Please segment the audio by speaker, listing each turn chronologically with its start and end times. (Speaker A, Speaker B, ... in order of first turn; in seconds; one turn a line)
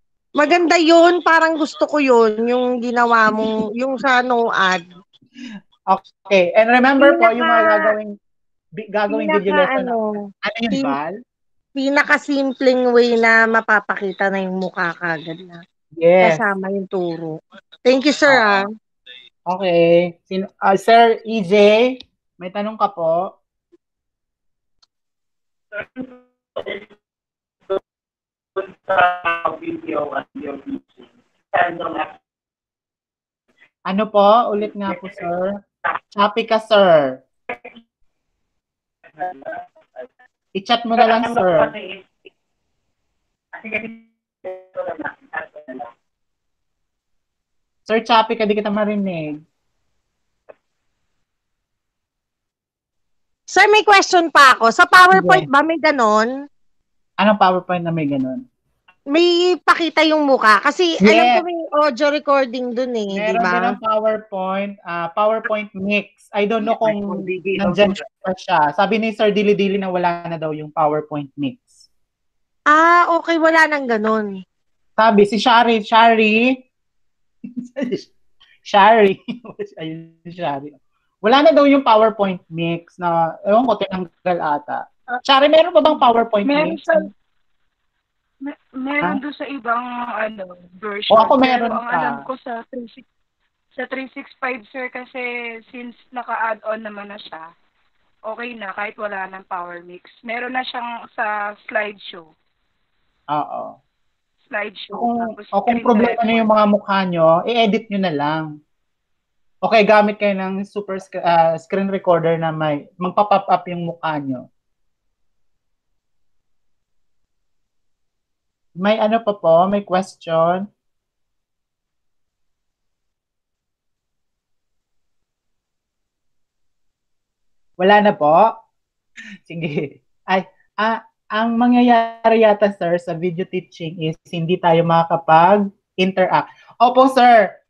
Speaker A: 0.4-4.9
Speaker B: 5.9-8.1
Speaker A: 7.0-7.9
Speaker B: 8.8-11.2
Speaker A: 9.1-10.1
Speaker A: 10.7-10.9
Speaker A: 11.8-15.6
Speaker B: 15.9-16.5
Speaker A: 16.2-18.6
Speaker B: 18.2-18.7
Speaker B: 19.5-23.3
Speaker B: 33.9-35.6
Speaker B: 36.1-37.2
Speaker B: 40.5-41.7
Speaker B: 47.9-49.4
Speaker A: 53.5-56.3
Speaker B: 55.1-55.5
Speaker B: 57.2-58.4
Speaker A: 59.1-63.8
Speaker B: 61.0-61.4
Speaker B: 63.1-71.9
Speaker A: 72.7-74.4
Speaker B: 75.0-76.6
Speaker B: 77.6-78.1
Speaker B: 78.7-87.1
Speaker C: 86.4-87.1
Speaker C: 88.4-93.0
Speaker B: 91.1-92.2
Speaker C: 93.8-97.5
Speaker C: 98.3-102.3
Speaker B: 103.3-103.8
Speaker C: 104.5-106.5
Speaker B: 104.9-108.5
Speaker B: 109.6-114.4
Speaker B: 118.8-120.7
Speaker B: 127.8-128.5
Speaker B: 129.5-137.5